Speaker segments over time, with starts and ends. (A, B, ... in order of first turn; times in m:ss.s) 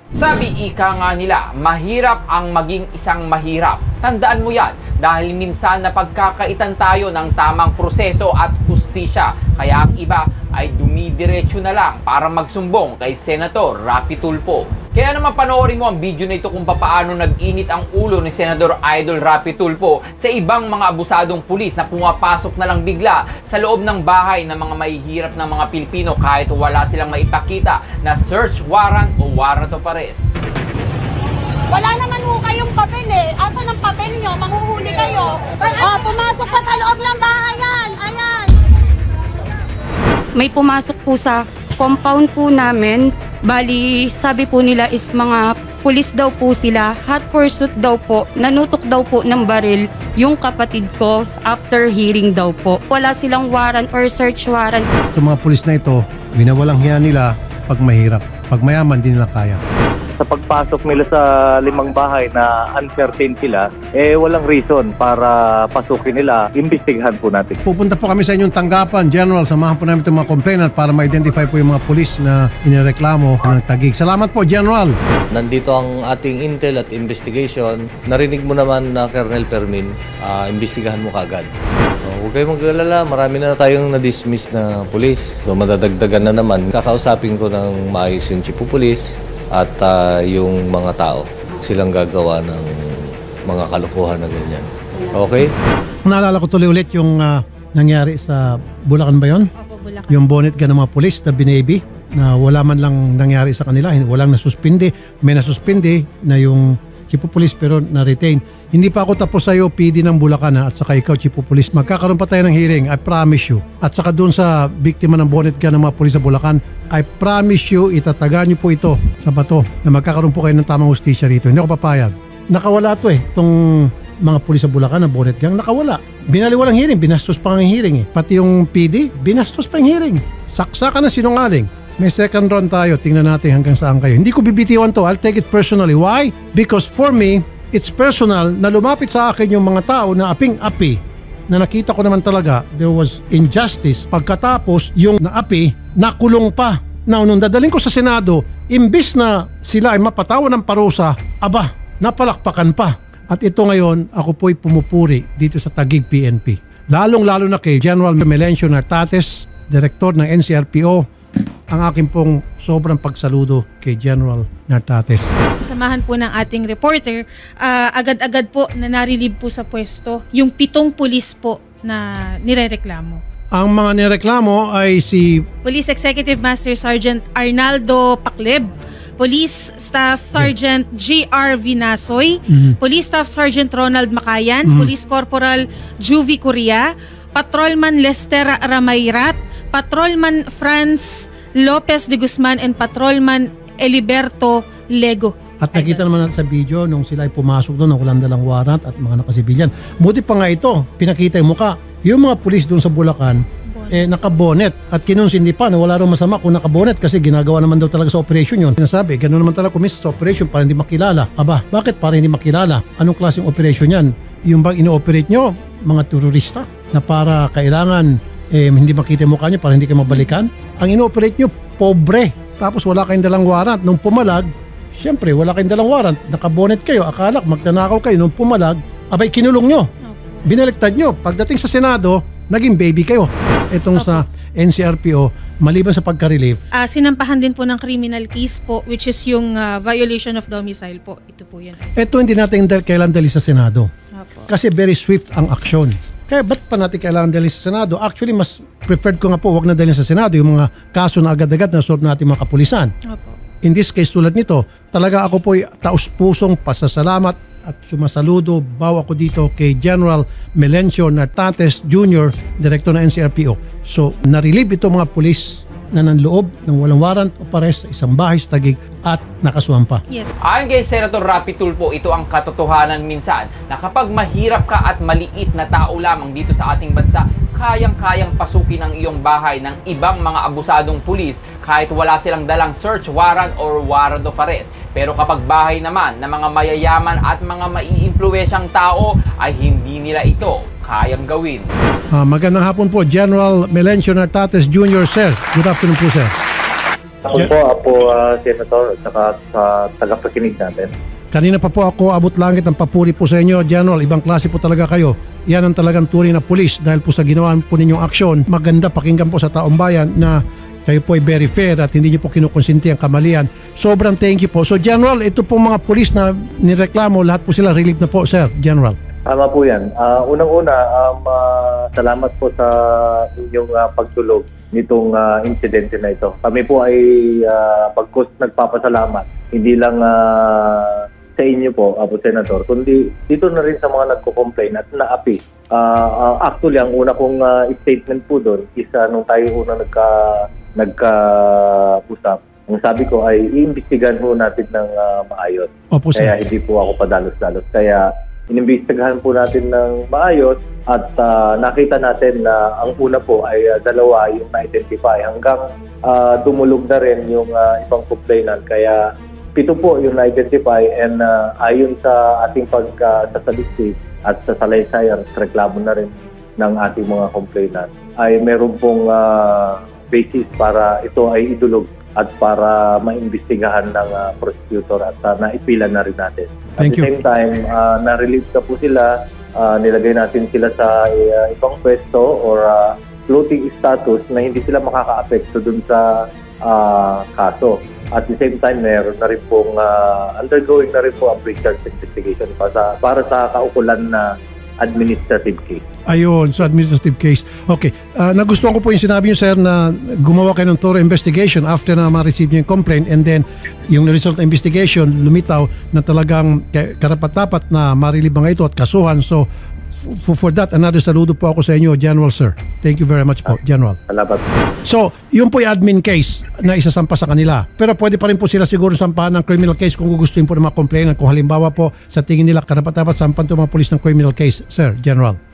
0:00.2-0:30.3 A
0:31.7-0:38.6 B
0:40.4-0:54.9 C
0:55.2-0:59.6 D
1:00.2-1:07.6 E
1:07.6-1:15.0 D
1:15.3-1:21.5 F
1:22.0-1:35.6 F
1:36.1-1:39.5 D
1:39.6-1:40.3 G
1:40.1-2:41.0 D
2:41.7-2:45.3 D
2:45.6-2:53.2 G
2:53.6-2:55.4 D
2:55.6-3:16.0 G
3:02.5-3:02.8 D
3:04.7-3:04.9 D
3:15.6-3:49.9 D
3:23.7-3:24.2 G
3:50.0-3:50.5 G
3:50.4-3:56.6 D
3:54.0-3:54.2 G
3:56.7-4:02.0 G
4:02.0-4:03.9 D
4:04.2-4:04.5 G
4:04.5-4:12.9 D
4:13.1-4:13.4 G
4:13.6-4:30.0 D
4:30.4-4:51.7 A
4:52.1-4:56.3 D
4:57.2-5:00.9 E
5:01.3-5:19.0 D
5:19.3-5:40.2 E
5:40.8-5:59.0 E
5:45.9-5:46.3 D
5:59.6-6:26.1 E
6:16.8-6:17.1 D
6:26.6-6:34.3 E
6:34.8-6:35.8 E
6:36.1-6:49.4 D
6:50.0-6:54.0 D
6:54.1-6:54.4 E
6:54.9-7:05.4 D